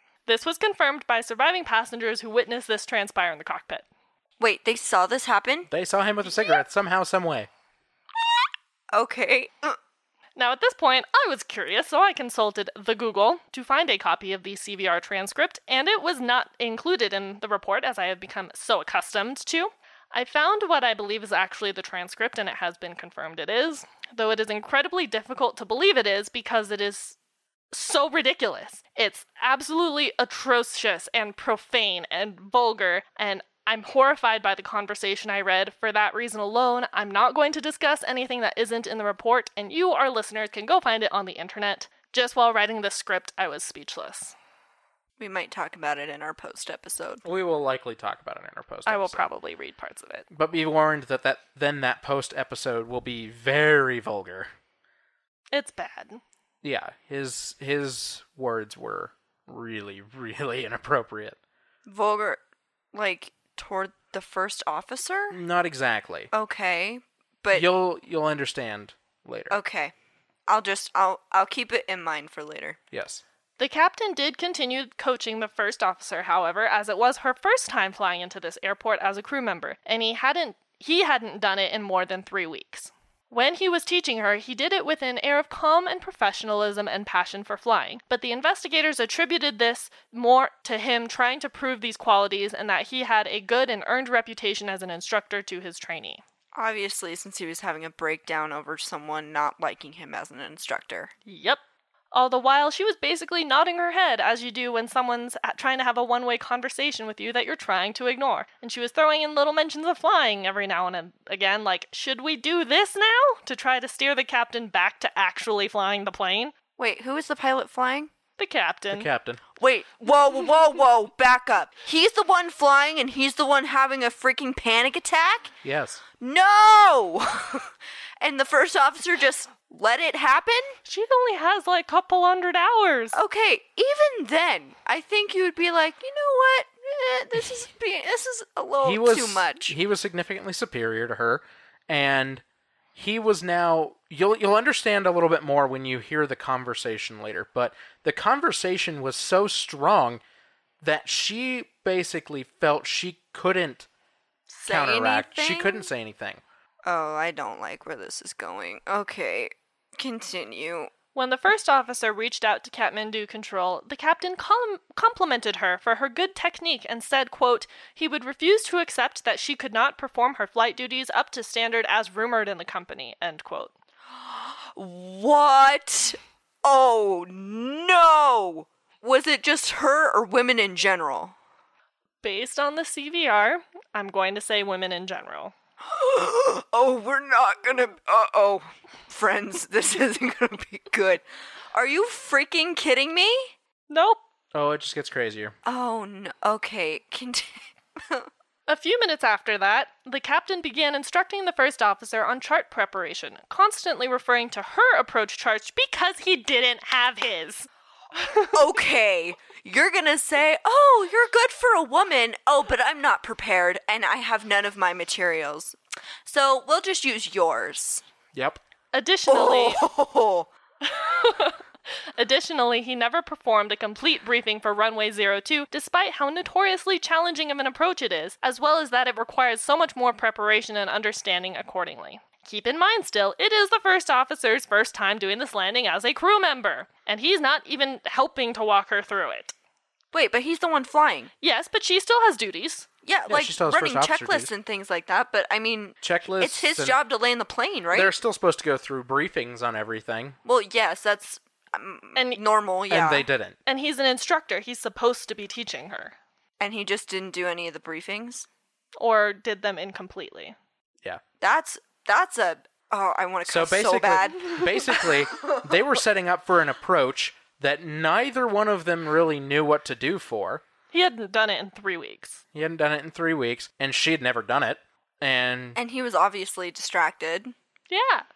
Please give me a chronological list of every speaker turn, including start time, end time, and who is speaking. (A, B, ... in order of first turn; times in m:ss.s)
0:00.2-0:03.8 A
0:04.4-0:05.7 B
0:05.7-0:07.5 C
0:08.9-0:09.8 B
0:10.4-0:27.1 A
0:27.7-0:44.3 A
0:45.2-0:47.2 B
0:47.2-0:49.2 C
0:48.8-0:50.3 A
0:50.3-0:54.5 C
0:55.5-0:56.2 A
0:56.6-1:01.4 C
1:01.8-1:02.4 B
1:02.9-1:05.4 B
1:05.3-1:06.3 C
1:06.3-1:07.6 B
1:07.5-1:09.6 C
1:09.5-1:09.9 B
1:10.5-1:12.8 B
1:12.9-1:13.2 C
1:13.6-1:36.2 A
1:36.5-1:41.1 B
1:41.2-1:41.6 A
1:42.1-1:56.5 A
1:56.8-1:58.1 B
1:58.4-1:59.1 A
1:58.9-1:59.4 C
1:59.6-2:05.5 B
2:05.6-2:06.0 C
2:06.2-2:10.8 B
2:10.8-2:13.2 A
2:13.1-2:19.7 B
2:18.8-2:22.4 C
2:23.0-2:30.2 C
2:30.8-2:33.9 C
2:34.5-2:35.9 B
2:34.6-2:36.4 C
2:36.8-2:40.9 B
2:41.1-2:53.7 A
2:54.1-3:01.3 B
3:02.2-3:05.5 A
3:05.8-3:13.5 B
3:13.9-3:14.2 A
3:14.5-3:15.5 C
3:15.6-3:18.3 B
3:18.7-3:28.6 A
3:28.5-3:38.0 B
3:38.3-3:38.6 C
3:38.9-3:39.8 A
3:39.3-3:40.5 B
3:40.8-3:59.5 A
4:00.1-4:01.3 B
4:01.4-4:02.9 A
4:03.0-4:08.1 B
4:03.3-4:04.5 C
4:06.0-4:07.0 C
4:07.9-4:10.4 C
4:10.4-4:13.3 B
4:12.1-4:12.4 A
4:12.9-4:13.6 C
4:13.6-4:16.2 A
4:16.6-4:18.5 B
4:19.0-4:20.6 A
4:21.4-4:25.5 B
4:23.5-4:30.6 C
4:30.9-4:32.4 A
4:32.5-4:35.8 C
4:35.8-4:37.5 B
4:37.9-4:38.2 A